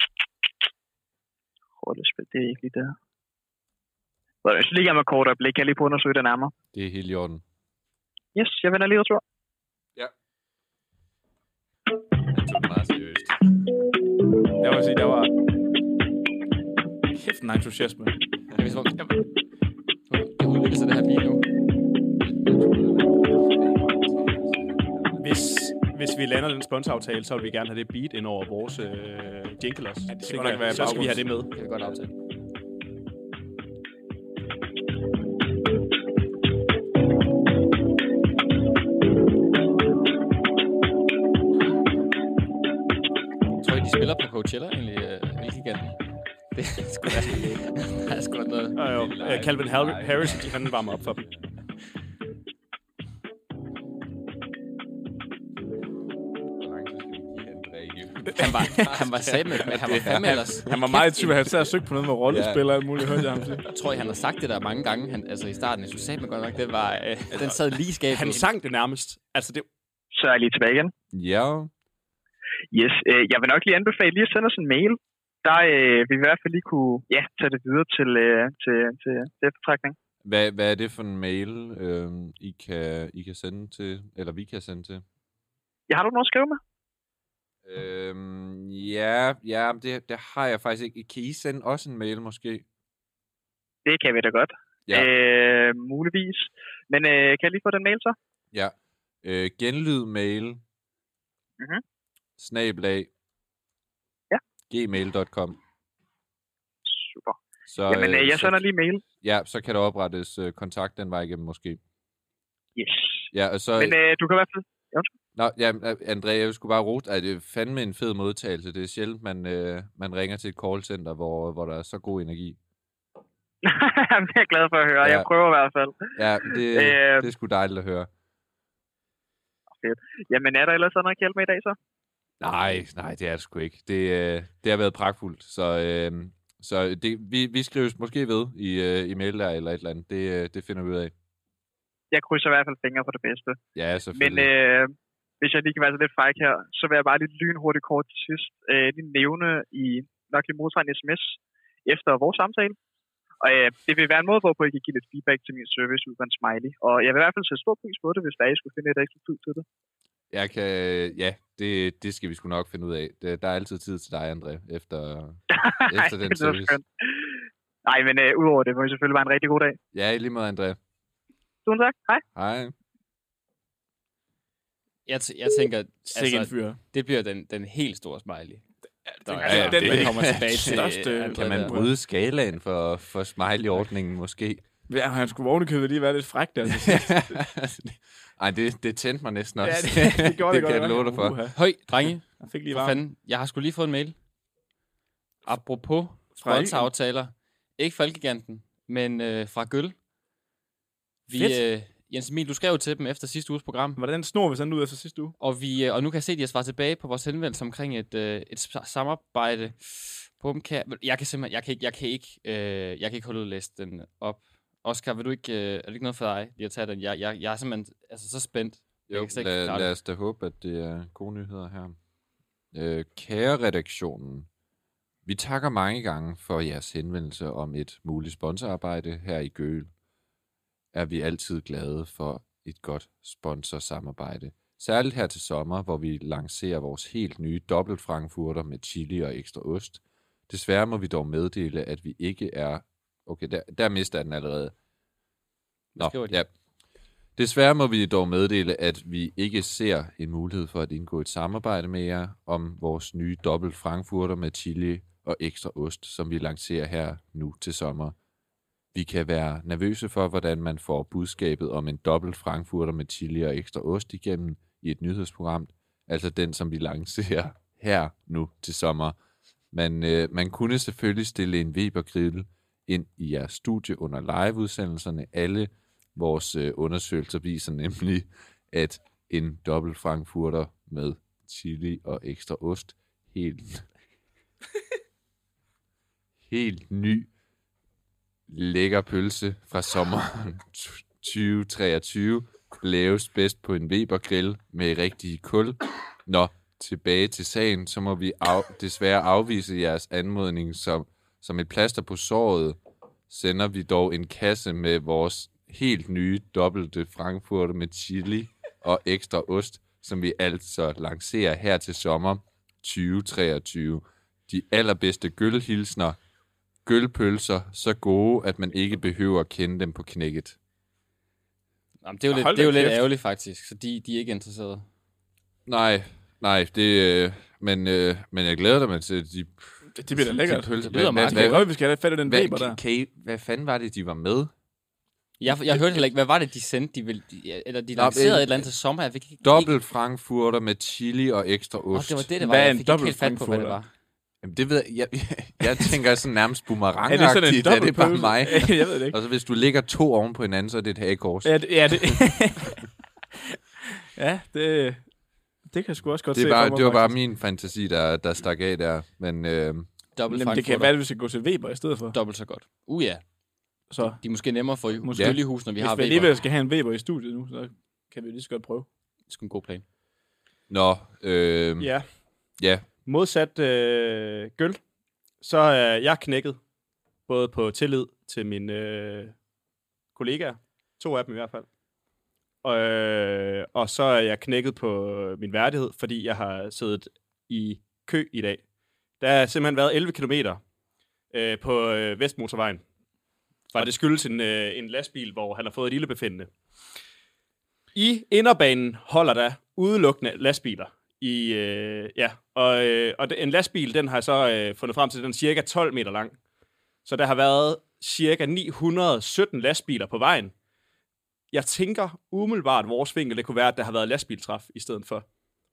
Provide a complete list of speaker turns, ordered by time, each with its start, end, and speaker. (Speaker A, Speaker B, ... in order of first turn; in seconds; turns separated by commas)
Speaker A: 1.8-2.9, Speaker A: 4.4-6.5, Speaker B: 6.7-7.4, Speaker A: 8.3-9.2, Speaker B: 12.3-13.4, Speaker C: 14.6-15.3, Speaker C: 17.1-18.2, Speaker D: 18.6-19.1, Speaker D: 20.1-21.4, Speaker B: 22.2-25.3, Speaker E: 25.2-31.5, Speaker C: 30.1-31.3, Speaker D: 31.4-32.1, Speaker D: 43.6-46.0, Speaker D: 46.5-48.8, Speaker E: 48.8-51.2, Speaker B: 48.9-51.4, Speaker B: 56.6-60.6, Speaker D: 58.3-61.5, Speaker C: 60.6-63.6, Speaker B: 62.3-63.4, Speaker D: 63.7-68.5, Speaker E: 68.1-69.7, Speaker A: 70.1-70.9, Speaker B: 71.1-71.7, Speaker A: 72.7-79.9, Speaker B: 80.2-85.0, Speaker A: 85.9-86.6, Speaker B: 87.6-92.6, Speaker A: 93.9-98.2, Speaker B: 98.5-100.6, Speaker B: 102.4-103.1, Speaker B: 104.7-105.6, Speaker A: 106.9-107.4, Speaker B: 107.7-108.6, Speaker A: 107.9-109.0, Speaker B: 109.2-111.8, Speaker A: 112.8-115.1, Speaker B: 113.3-113.9, Speaker B: 115.3-122.6, Speaker A: 123.6-127.3, Speaker B: 126.2-128.1, Speaker A: 129.7-131.8, Speaker B: 132.4-141.1, Speaker A: 142.1-143.6, Speaker B: 143.7-144.5, Speaker A: 144.1-152.8, Speaker A: 153.4-159.6, Speaker B: 160.3-166.8, Speaker A: 165.5-169.8, Speaker B: 169.9-170.8, Speaker A: 171.6-172.2, Speaker B: 172.3-172.7, Speaker D: 175.1-178.7, Speaker C: 176.1-176.8, Speaker C: 179.1-181.9, Speaker D: 179.2-181.8, Speaker B: 179.4-184.6, Speaker C: 184.9-187.3, Speaker B: 186.7-191.4, Speaker C: 189.6-193.0, Speaker D: 191.5-194.2, Speaker D: 195.4-199.9, Speaker C: 196.4-196.9, Speaker D: 201.3-204.0, Speaker C: 201.3-201.6, Speaker C: 204.0-205.3, Speaker D: 205.4-219.9, Speaker B: 219.1-222.0, Speaker B: 222.7-224.5, Speaker B: 225.2-229.9, Speaker B: 230.9-244.7, Speaker D: 245.9-246.4, Speaker B: 246.0-246.5, Speaker B: 247.4-258.1, Speaker B: 258.9-269.1, Speaker B: 269.7-283.8, Speaker B: 286.5-287.3, Speaker B: 288.5-302.8, Speaker B: 303.3-316.2, Speaker B: 316.8-320.6, Speaker D: 322.0-324.9, Speaker C: 322.3-323.0, Speaker B: 325.6-331.7, Speaker C: 329.9-332.8, Speaker D: 330.8-331.6, Speaker B: 332.2-334.5, Speaker D: 335.4-339.7, Speaker B: 337.9-338.7, Speaker B: 339.4-342.2, Speaker D: 341.9-343.9, Speaker C: 342.4-343.8, Speaker B: 344.4-352.2, Speaker C: 347.1-349.2, Speaker C: 351.4-352.8, Speaker C: 354.1-355.1, Speaker C: 355.6-357.2, Speaker B: 356.3-359.9, Speaker D: 360.1-360.9, Speaker C: 360.3-362.1, Speaker D: 362.1-363.2, Speaker C: 363.9-364.2, Speaker D: 364.0-366.3, Speaker C: 365.0-368.9, Speaker D: 369.3-369.8, Speaker B: 370.7-371.9, Speaker E: 371.8-372.1, Speaker B: 372.6-372.9, Speaker E: 373.0-374.8, Speaker E: 375.4-376.6, Speaker E: 377.3-379.4, Speaker E: 380.1-381.7, Speaker E: 382.6-388.6, Speaker E: 389.2-390.6, Speaker E: 391.3-392.8, Speaker E: 393.7-396.5, Speaker E: 397.9-406.4, Speaker E: 407.0-410.5, Speaker E: 411.5-415.3